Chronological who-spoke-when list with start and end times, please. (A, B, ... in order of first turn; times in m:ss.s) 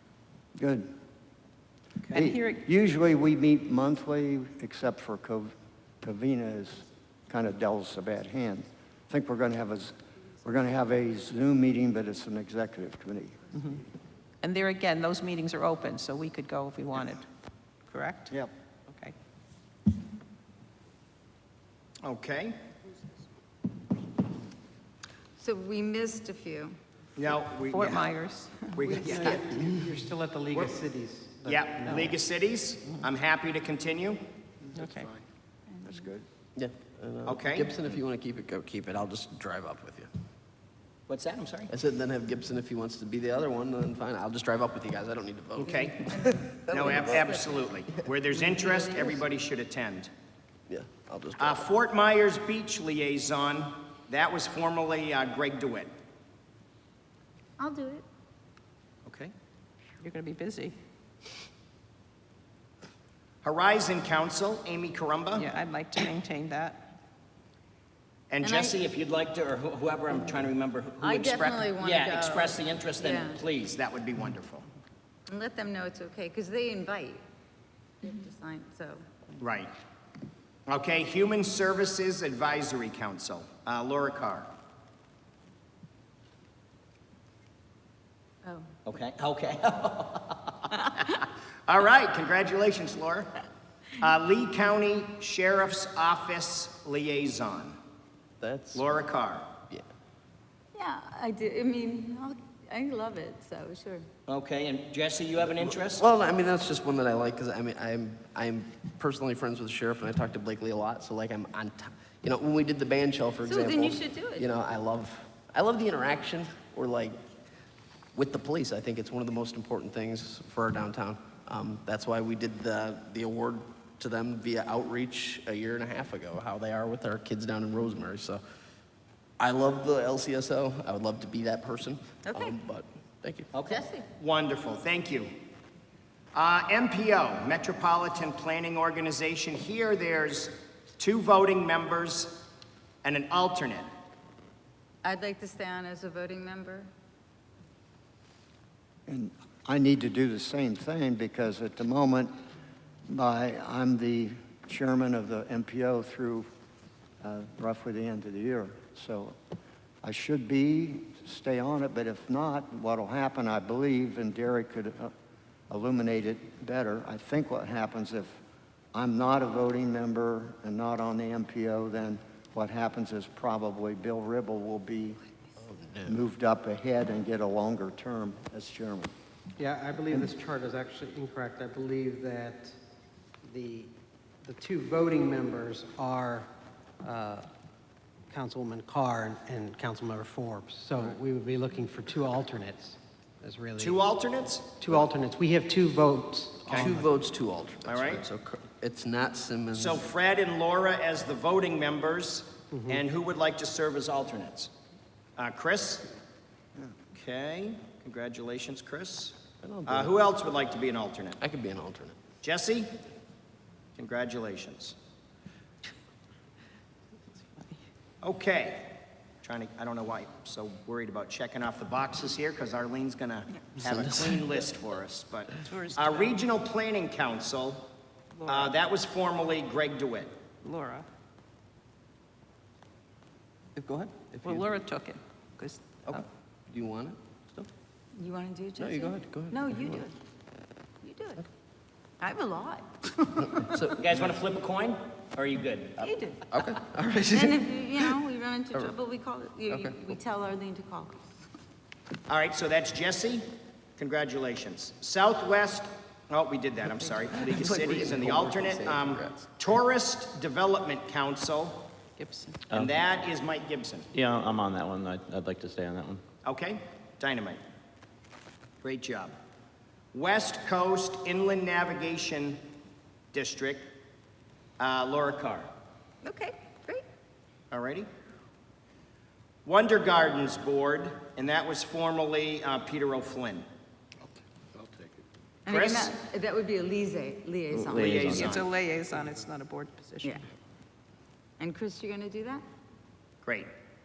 0:00.6-0:00.9 A
0:02.1-0:13.5 A
0:02.1-0:02.6 B
0:14.4-0:17.3 B
0:17.9-0:18.3 B
0:22.0-0:22.5 C
0:25.4-0:26.8 D
0:27.2-0:28.1 C
0:27.7-0:28.8 B
0:28.8-0:29.4 C
0:28.8-0:32.2 E
0:29.0-0:29.4 D
0:31.5-0:34.2 C
0:34.7-0:35.2 A
0:34.8-0:35.1 B
0:35.7-0:36.1 D
0:35.8-0:36.2 A
0:36.6-0:40.1 F
0:37.2-0:37.8 C
0:41.1-0:41.7 C
0:41.7-0:47.2 F
0:45.6-0:50.1 C
0:45.9-0:47.6 D
0:48.4-0:49.2 D
0:50.7-0:51.6 F
0:51.4-0:55.9 C
0:57.6-0:58.0 D
0:59.0-0:59.3 C
1:00.0-1:00.8 B
1:03.4-1:05.5 C
1:05.4-1:06.8 B
1:08.3-1:14.6 C
1:08.4-1:08.8 D
1:11.0-1:13.4 D
1:15.3-1:17.2 D
1:18.0-1:19.0 D
1:19.4-1:19.7 C
1:20.7-1:24.5 C
1:28.8-1:33.3 C
1:34.0-1:37.8 C
1:38.4-1:38.8 F
1:38.7-1:39.5 C
1:40.7-1:44.1 D
1:44.3-1:46.1 C
1:45.9-1:57.2 F
1:53.4-1:54.5 D
1:58.1-2:08.4 F
2:09.4-2:13.4 F
2:12.2-2:12.6 D
2:13.5-2:15.3 C
2:13.6-2:14.0 D
2:16.3-2:22.5 C
2:23.0-2:23.9 C
2:25.0-2:26.9 D
2:29.1-2:32.3 A
2:33.1-2:36.5 A
2:37.2-2:39.4 A
2:40.0-2:45.1 A
2:45.7-2:48.4 A
2:48.9-2:55.2 A
2:55.6-2:56.2 F
2:56.0-2:59.1 A
2:59.6-3:02.8 E
3:03.4-3:03.9 E
3:04.4-3:06.5 E
3:07.0-3:07.5 E
3:08.3-3:14.0 E
3:13.8-3:14.9 C
3:14.8-3:17.0 E
3:16.7-3:17.0 C
3:16.8-3:20.0 F
3:17.8-3:18.2 C
3:19.7-3:24.7 C
3:22.7-3:23.0 E
3:25.4-3:26.1 C
3:27.1-3:31.4 C
3:29.6-3:30.1 F
3:31.4-3:32.2 F
3:32.4-3:32.9 C
3:34.0-3:34.9 C
3:38.2-3:47.9 C
3:43.8-3:44.6 F
3:45.6-3:46.4 B
3:48.4-3:48.7 B
3:48.5-3:50.3 C
3:50.6-3:51.1 B
3:53.8-3:54.6 F
3:54.4-3:56.2 B
3:56.1-3:57.7 F
3:58.2-4:00.1 D
3:58.8-4:00.0 F
4:01.0-4:01.4 D
4:02.2-4:03.8 D
4:03.6-4:04.0 F
4:04.0-4:06.1 C
4:06.0-4:06.4 D
4:06.5-4:07.5 F
4:07.3-4:11.2 D
4:12.3-4:13.5 C
4:14.0-4:21.9 C
4:17.4-4:19.5 F
4:22.2-4:22.6 B
4:22.7-4:23.0 G
4:22.7-4:24.1 C
4:24.1-4:26.2 G
4:26.4-4:27.6 C
4:28.8-4:29.3 C
4:30.1-4:32.6 C
4:33.3-4:33.9 C
4:34.8-4:35.7 C
4:36.2-4:37.0 D
4:37.7-4:38.1 C
4:39.6-4:43.6 C
4:45.6-4:48.4 D
4:45.7-4:46.1 C
4:47.7-4:48.5 G
4:47.9-4:48.7 C
4:48.3-4:50.4 B
4:51.6-4:52.6 D
4:53.4-4:53.7 C